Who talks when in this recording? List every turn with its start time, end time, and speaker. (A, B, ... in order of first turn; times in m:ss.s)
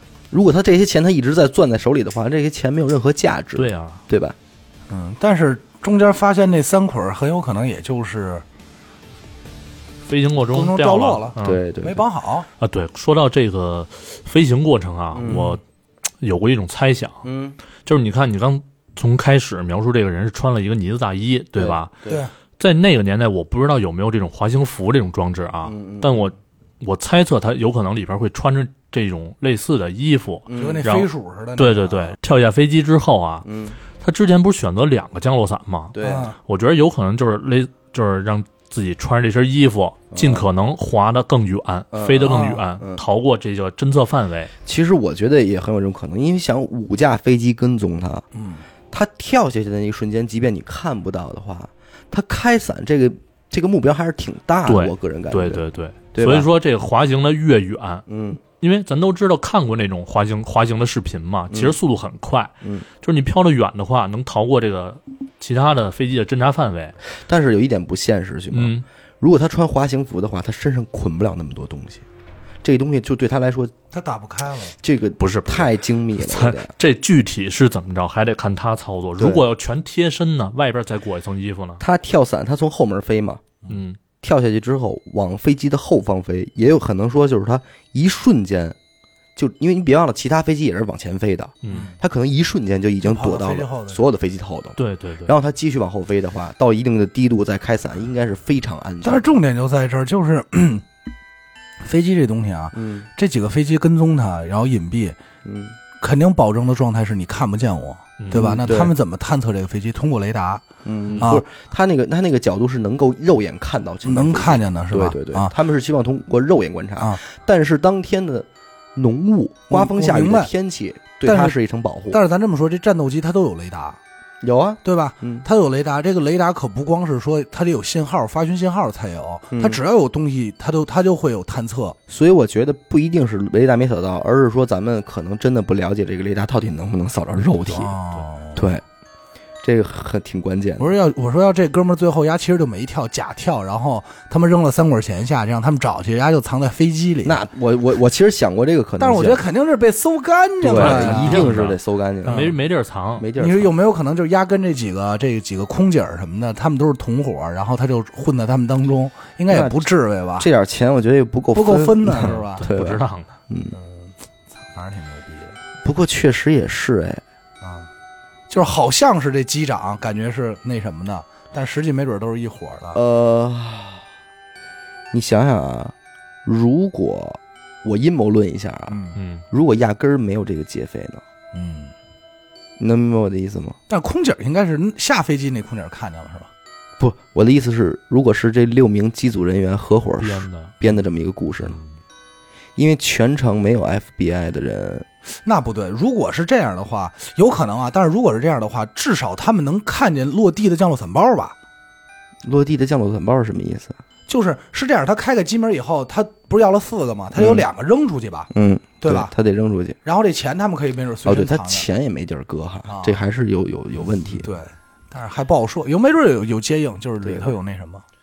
0:00.3-0:04.4 A
0:03.6-0:04.0 B
0:04.9-0:08.4 C
0:10.0-0:11.6 B
0:10.5-0:12.5 C
0:11.4-0:12.0 A
0:12.6-0:15.6 B
0:15.1-0:15.6 A
0:16.2-0:17.3 B
0:17.2-0:17.6 A
0:17.9-0:22.0 B
0:21.6-0:22.2 A
0:22.1-0:22.3 C
0:22.6-0:33.5 B
0:25.6-0:26.3 A
0:30.5-0:30.8 A
0:30.6-0:32.2 C
0:33.4-0:33.8 A
0:34.0-0:35.9 B
0:35.9-0:36.3 A
0:36.0-0:36.4 C
0:36.5-0:44.5 B
0:40.1-0:40.5 A
0:41.9-0:43.0 A
0:42.2-0:42.6 C
0:44.6-0:48.3 A
0:48.3-0:48.6 C
0:48.9-0:56.5 A
0:54.7-0:58.1 B
0:58.1-0:58.4 A
0:58.6-1:07.0 B
1:07.3-1:12.0 A
1:08.5-1:08.8 B
1:12.6-1:13.7 A
1:13.9-1:14.8 C
1:14.8-1:16.7 A
1:15.2-1:21.8 B
1:19.2-1:19.4 A
1:21.8-1:23.4 A
1:23.7-1:24.0 B
1:24.2-1:28.8 A
1:29.4-1:39.2 A
1:31.6-1:31.9 B
1:31.7-1:32.0 C
1:33.0-1:34.0 C
1:34.8-1:35.3 B
1:39.0-1:40.8 C
1:41.8-1:45.2 C
1:42.7-1:43.1 A
1:45.4-1:45.8 A
1:46.0-1:50.7 C
1:48.2-1:48.6 B
1:48.3-1:48.9 A
1:50.8-2:02.2 A
1:51.1-1:51.3 B
1:51.2-1:51.4 C
1:54.0-1:55.5 C
1:59.7-2:00.5 C
2:01.2-2:01.6 C
2:02.1-2:04.0 C
2:04.4-2:05.4 A
2:04.8-2:12.0 C
2:09.5-2:09.8 A
2:12.1-2:18.0 A
2:17.7-2:18.7 C
2:18.6-2:18.8 A
2:19.6-2:20.9 A
2:20.8-2:27.4 C
2:27.2-2:29.4 A
2:29.0-2:31.5 C
2:30.6-2:32.5 A
2:30.7-2:33.3 B
2:32.3-2:32.6 C
2:33.2-2:33.7 A
2:33.4-2:40.5 C
2:39.5-2:39.8 A
2:40.4-2:43.8 A
2:41.5-2:42.7 C
2:42.1-2:43.3 B
2:43.7-2:45.6 C
2:45.8-2:47.2 A
2:47.6-2:47.9 C
2:48.5-2:53.0 C
2:52.9-2:54.0 A
2:55.1-2:55.9 A
2:56.4-3:01.2 A
2:58.9-2:59.2 C
2:59.2-2:59.4 B
3:01.5-3:01.9 C
3:02.8-3:03.8 A
3:03.9-3:06.5 C
3:07.0-3:11.8 A
3:10.2-3:10.8 B
3:12.8-3:15.1 A
3:15.4-3:21.6 C
3:22.4-3:24.0 A
3:24.3-3:28.5 C
3:27.4-3:27.6 A
3:28.5-3:30.0 A
3:29.0-3:29.3 C
3:30.0-3:31.9 C
3:31.2-3:34.5 A
3:32.9-3:33.2 C
3:34.4-3:38.0 C
3:37.2-3:37.5 A